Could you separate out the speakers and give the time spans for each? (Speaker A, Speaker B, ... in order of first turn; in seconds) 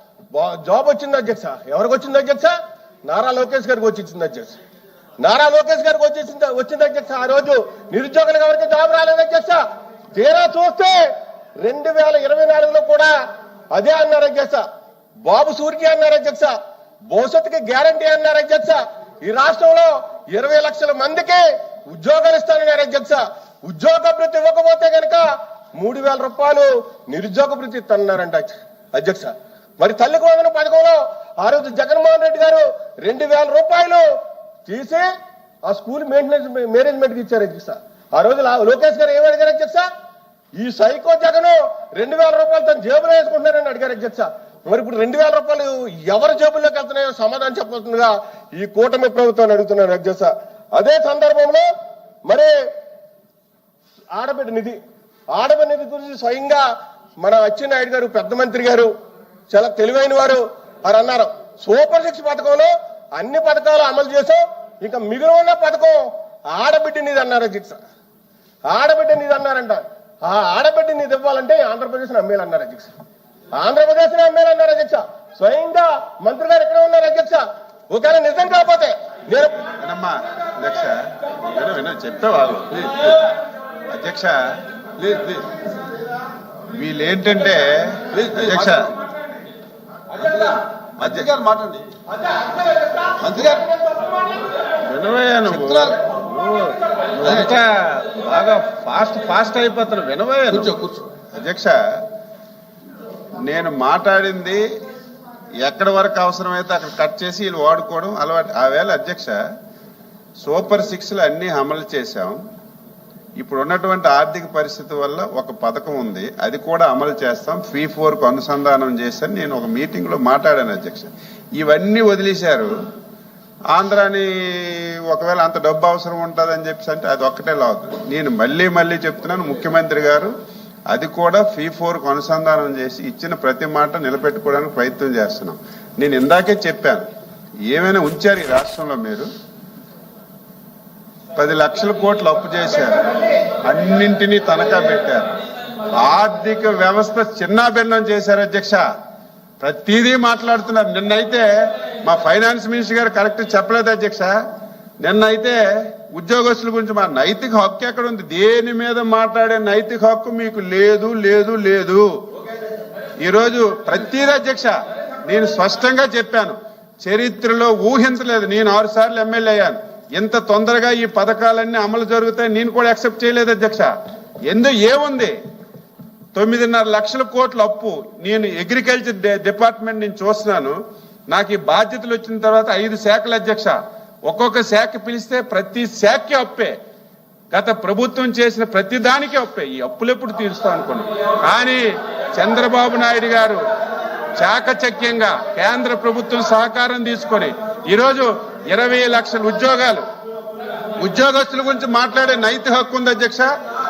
Speaker A: 0.3-4.6, 5.2-11.1, 11.6-13.1, 13.7-14.7, 15.2-16.5, 17.1-34.0, 34.7-35.1, 35.7-39.9, 40.6-51.7, 52.3-52.5, 54.1-54.8, 55.3-56.6, 57.2-58.9, 59.5-67.8, 68.7-72.9, 73.6-79.6
Speaker B: 79.8-82.7, 83.9-84.4, 86.7-88.9, 91.0-91.3, 94.9-100.7, 101.3-102.0, 103.5-104.6, 105.6-109.4, 110.4-112.4, 113.4-122.7, 123.7-130.3, 130.9-137.1, 137.7-139.3, 141.4-143.0, 143.7-145.3, 145.9-148.8, 149.6-154.4, 155.0-162.1, 163.2-173.9, 174.5-175.4, 176.3-180.8, 181.3-186.8, 187.5-191.8, 192.4-193.6, 194.4-200.1, 201.0-203.5
Speaker C: 82.7-83.1, 85.0-85.5, 88.1-88.9, 90.1-91.9, 93.2-93.7, 95.5-96.0, 97.2-97.5, 100.5-101.1